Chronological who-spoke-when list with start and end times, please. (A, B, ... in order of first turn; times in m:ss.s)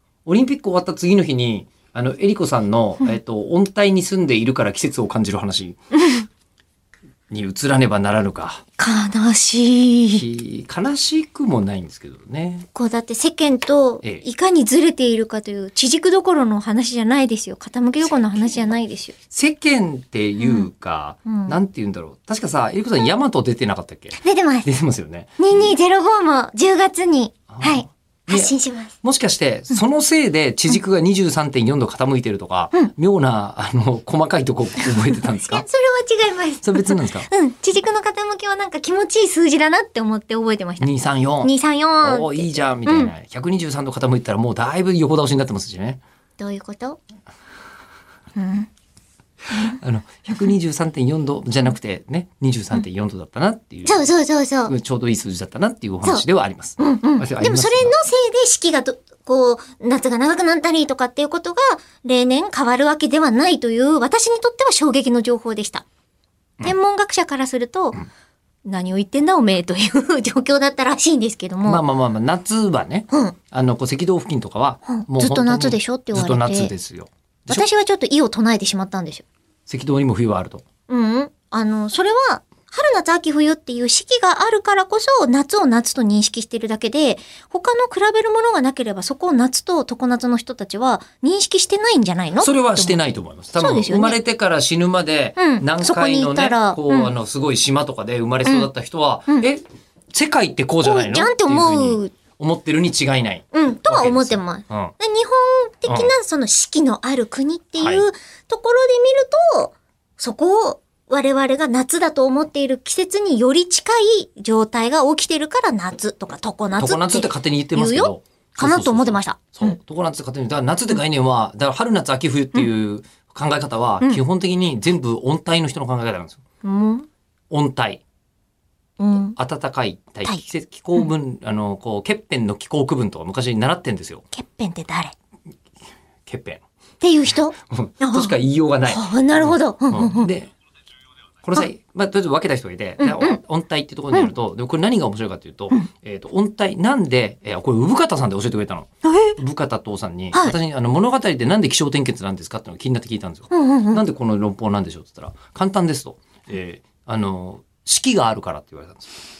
0:00.2-0:05.8 A
0:07.3-0:08.6 A
0:08.8-0:10.2 B
0:10.1-0:12.7 A
0:12.7-0:19.1 B
0:19.3-0:25.7 A
0:20.4-0:20.7 B
0:21.2-0:21.6 B
0:24.1-0:24.7 B
0:25.4-0:29.0 B
0:27.5-0:35.6 A
0:35.0-0:40.9 B
0:36.6-0:37.3 A
0:40.8-0:46.0 A
0:41.4-0:43.1 B
0:46.4-0:47.0 B
0:48.4-0:48.7 B
0:49.6-0:54.1 A
0:53.8-0:54.7 B
0:54.6-0:57.9 A
0:56.8-1:05.8 B
1:06.6-1:08.0 B
1:08.6-1:11.8 B
1:11.6-1:17.6 A
1:13.1-1:13.4 B
1:14.9-1:16.7 B
1:17.5-1:19.2 B
1:19.7-1:20.6 A
1:20.9-1:33.0 B
1:32.4-1:44.9 A
1:33.6-1:34.2 B
1:35.4-1:37.1 B
1:40.8-1:42.1 B
1:43.5-1:59.8 B
1:45.9-1:46.1 A
1:47.8-1:48.0 A
1:56.8-2:06.4 A
2:06.6-2:07.1 B
2:07.5-2:08.0 A
2:09.0-2:09.4 B
2:09.4-2:14.2 A
2:14.3-2:15.1 B
2:16.2-2:16.6 A
2:17.0-2:18.4 B
2:17.6-2:20.5 A
2:18.9-2:20.3 B
2:21.4-2:39.1 A
2:23.0-2:23.4 B
2:33.5-2:34.0 B